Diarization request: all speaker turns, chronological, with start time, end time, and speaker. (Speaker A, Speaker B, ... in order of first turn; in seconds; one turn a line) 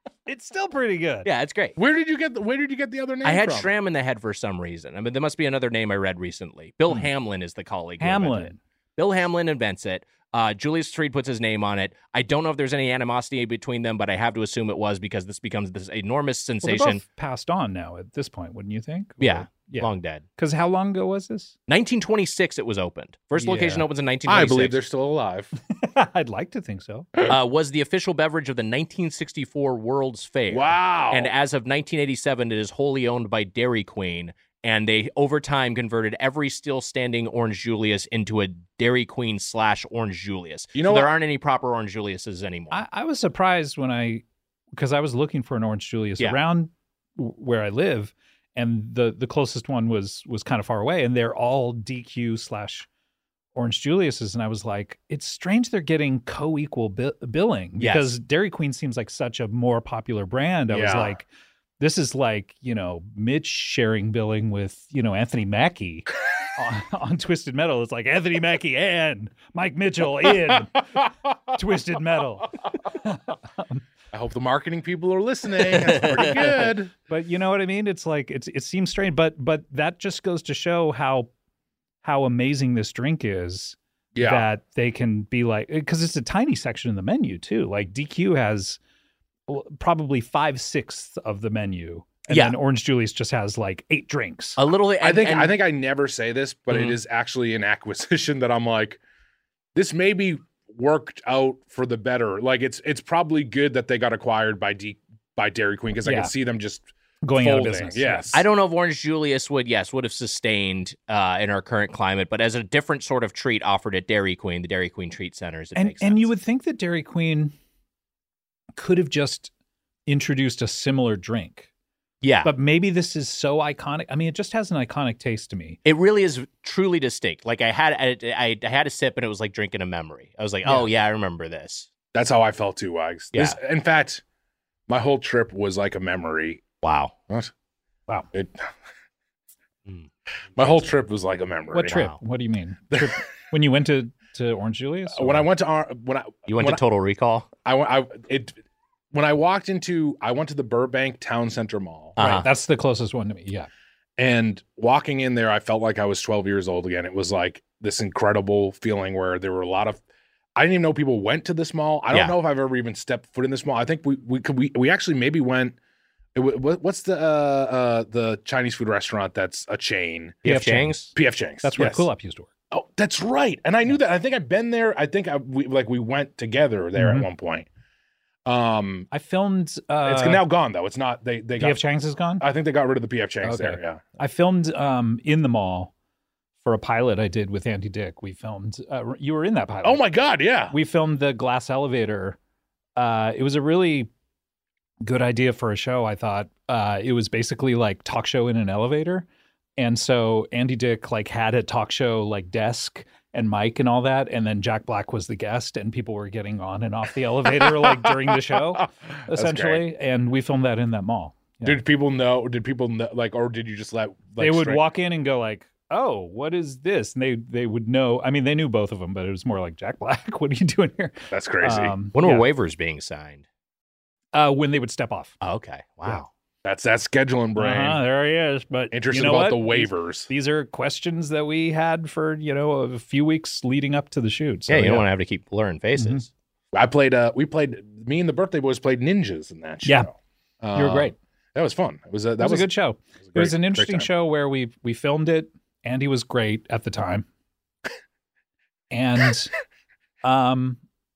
Speaker A: 0.3-1.3
Speaker B: 1.2-1.8
Speaker C: 1.8-3.7
Speaker B: 3.2-17.0
Speaker A: 8.0-8.6
Speaker A: 16.6-21.6
Speaker B: 19.2-20.2
Speaker B: 21.7-24.8
Speaker A: 23.4-23.9
Speaker C: 24.3-25.5
Speaker A: 25.7-27.1
Speaker B: 27.2-42.8
Speaker C: 30.5-31.3
Speaker C: 40.8-41.1
Speaker A: 42.7-44.2
Speaker A: 44.8-52.9
Speaker A: 53.5-61.3
Speaker B: 57.8-58.1
Speaker C: 60.7-61.2
Speaker A: 61.8-73.8
Speaker C: 74.1-76.9
Speaker B: 75.8-76.5
Speaker A: 77.1-81.3
Speaker A: 82.0-88.8
Speaker C: 84.2-84.5
Speaker A: 89.5-94.6
Speaker B: 92.3-92.6
Speaker B: 94.6-95.6
Speaker C: 95.0-99.0
Speaker B: 96.7-97.0
Speaker C: 99.8-108.5
Speaker A: 106.0-106.3
Speaker A: 107.2-108.3
Speaker B: 108.3-116.3
Speaker A: 115.8-117.5
Speaker A: 118.8-119.5
Speaker A: 120.1-121.7
Speaker B: 122.2-122.5
Speaker A: 122.4-125.8
Speaker B: 125.8-131.9
Speaker C: 132.1-134.2
Speaker C: 134.9-136.7
Speaker B: 136.8-137.1
Speaker C: 138.3-138.7
Speaker B: 139.9-140.8
Speaker C: 140.6-142.0
Speaker A: 141.7-145.5
Speaker B: 141.8-142.2
Speaker C: 142.9-143.2
Speaker C: 145.1-146.8
Speaker B: 146.5-147.5
Speaker C: 147.7-148.6
Speaker C: 149.1-152.2
Speaker B: 152.2-152.5
Speaker A: 152.2-153.7
Speaker C: 154.2-160.0
Speaker C: 160.6-165.8
Speaker C: 166.3-170.4
Speaker B: 170.4-171.1
Speaker A: 170.4-172.5
Speaker C: 171.2-172.1
Speaker C: 172.7-177.7
Speaker A: 177.0-177.3
Speaker C: 178.4-179.1
Speaker A: 179.1-180.4
Speaker C: 180.0-181.8
Speaker A: 181.6-182.4
Speaker C: 182.4-184.0
Speaker A: 183.4-185.9
Speaker A: 186.6-190.1
Speaker C: 189.8-190.8
Speaker A: 190.7-192.4
Speaker A: 193.0-194.1
Speaker A: 195.0-199.3
Speaker A: 199.8-211.8
Speaker C: 207.6-208.3
Speaker C: 209.3-209.8
Speaker C: 211.6-214.8
Speaker A: 214.4-222.5
Speaker C: 221.3-221.9
Speaker B: 222.1-223.4
Speaker A: 224.3-225.4
Speaker B: 225.4-226.3
Speaker C: 226.6-228.0
Speaker A: 227.6-235.1
Speaker C: 228.9-230.3
Speaker B: 234.7-236.3
Speaker A: 236.0-236.2
Speaker C: 236.7-242.7
Speaker A: 239.8-240.1
Speaker A: 240.7-241.2
Speaker A: 242.4-247.3
Speaker C: 243.3-244.1
Speaker A: 248.9-249.5
Speaker A: 250.2-250.8